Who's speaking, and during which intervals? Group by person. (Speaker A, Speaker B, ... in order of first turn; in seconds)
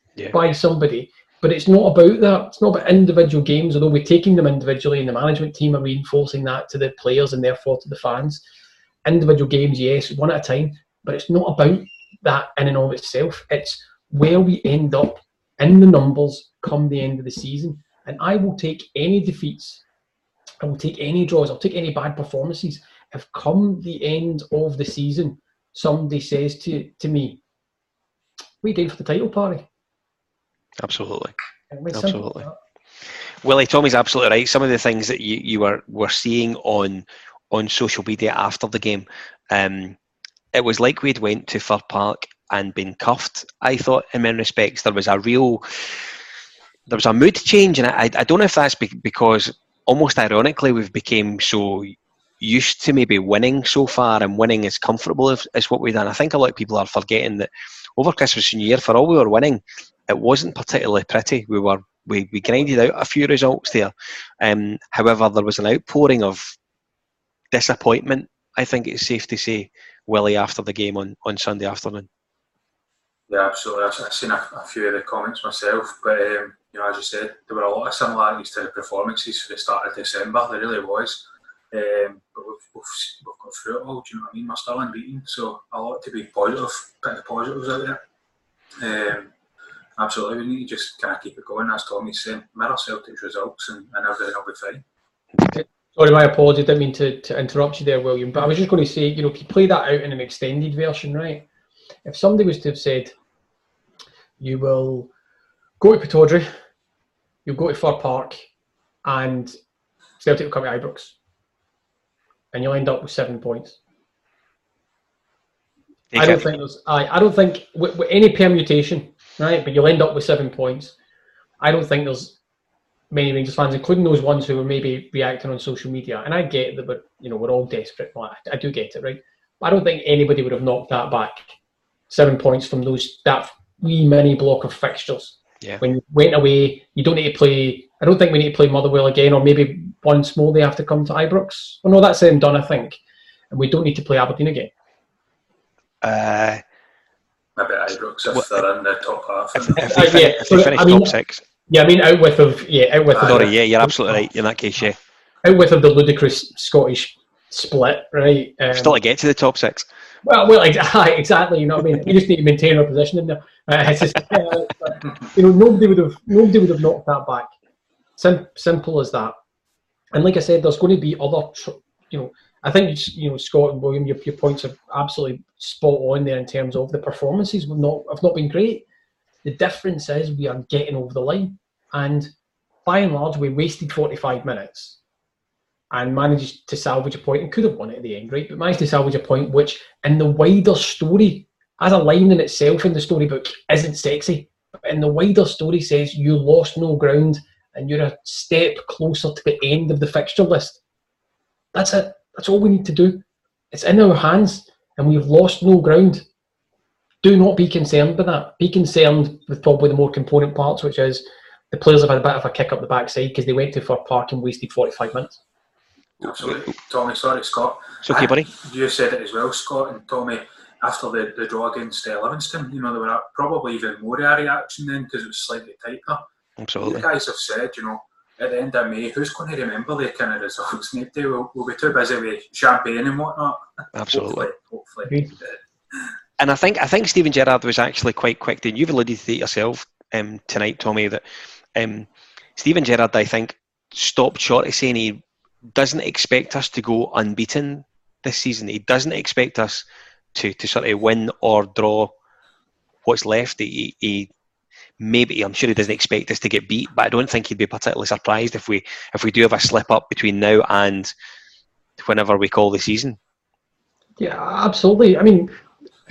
Speaker A: 0.3-8.4, 9.1-19.8, 20.6-27.4, 28.6-29.7, 31.7-32.6, 95.5-101.5, 102.0-103.2, 104.4-105.1, 105.8-106.5, 107.5-108.5, 109.0-109.5, 110.2-111.2, 112.5-113.8, 116.2-121.0, 121.6-122.4, 123.1-131.5, 132.1-143.0, 143.5-144.7, 149.8-151.2, 151.7-154.2, 155.4-159.0, 160.2-167.5, 168.2-169.3, 170.1-178.8, 179.4-182.3, 182.8-185.0, 185.9-200.8, 201.7-206.2, 207.2-215.4, 235.1-235.3, 264.2-265.5
Speaker B: 30.8-31.4, 31.9-32.5, 33.4-40.0, 40.5-46.0, 46.9-66.5, 67.5-72.1, 116.1-116.5, 146.0-146.6, 148.3-148.6, 149.6-151.4, 153.2-155.0, 158.7-159.9, 216.2-216.7, 218.0-218.5, 226.6-227.1, 233.9-234.5, 236.4-241.2, 241.8-245.2, 245.8-252.1, 253.0-254.3, 255.0-261.1, 262.0-263.2
Speaker C: 73.3-88.0, 88.8-89.3, 90.0-94.8, 147.6-149.9, 153.2-153.5, 216.2-226.3, 226.8-235.5